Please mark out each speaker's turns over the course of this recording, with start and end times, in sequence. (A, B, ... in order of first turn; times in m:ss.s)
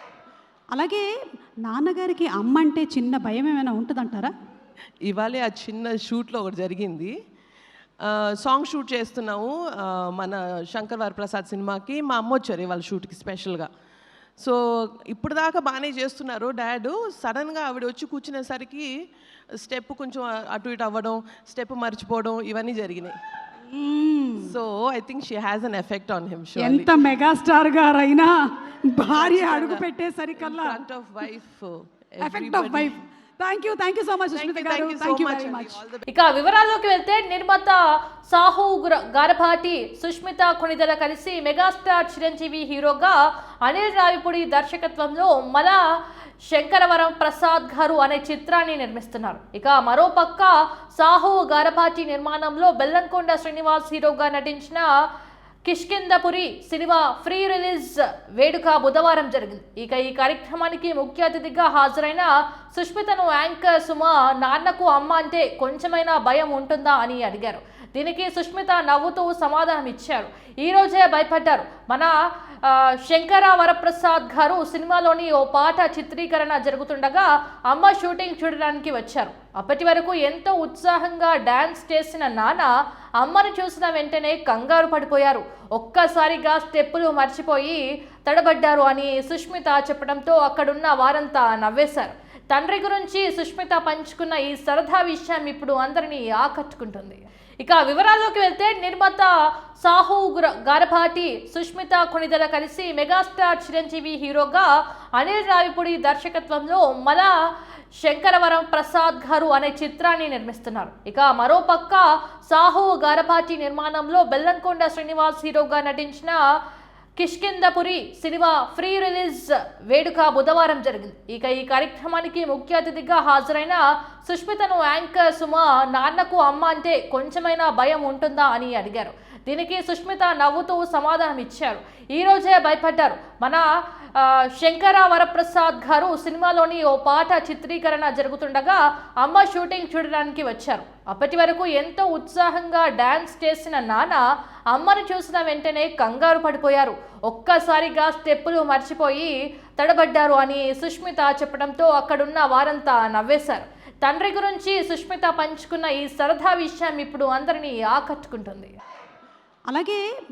0:00.7-0:01.0 A
0:01.7-0:04.3 A
0:05.1-0:07.1 B
0:08.4-0:13.7 B
0:15.1-0:18.9 B
0:19.6-0:23.2 B
0:23.8-0:24.5 A
0:24.4-0:27.0 B
0:26.6-0:30.8 A
0:29.1-0:29.9 B
0:30.4-0:33.0 B
0:32.2-0:35.8 A
0:34.3-0:36.0 B
0:36.1-0:45.8 C
0:46.5-0:54.8 C
0:55.7-1:12.1 C
1:12.7-1:22.7 C
1:23.2-1:39.3 C
1:39.8-1:47.3 C
1:48.0-1:56.4 C
1:57.2-2:13.6 C
2:14.2-2:24.2 C
2:24.7-2:38.7 C
2:39.7-2:40.0 A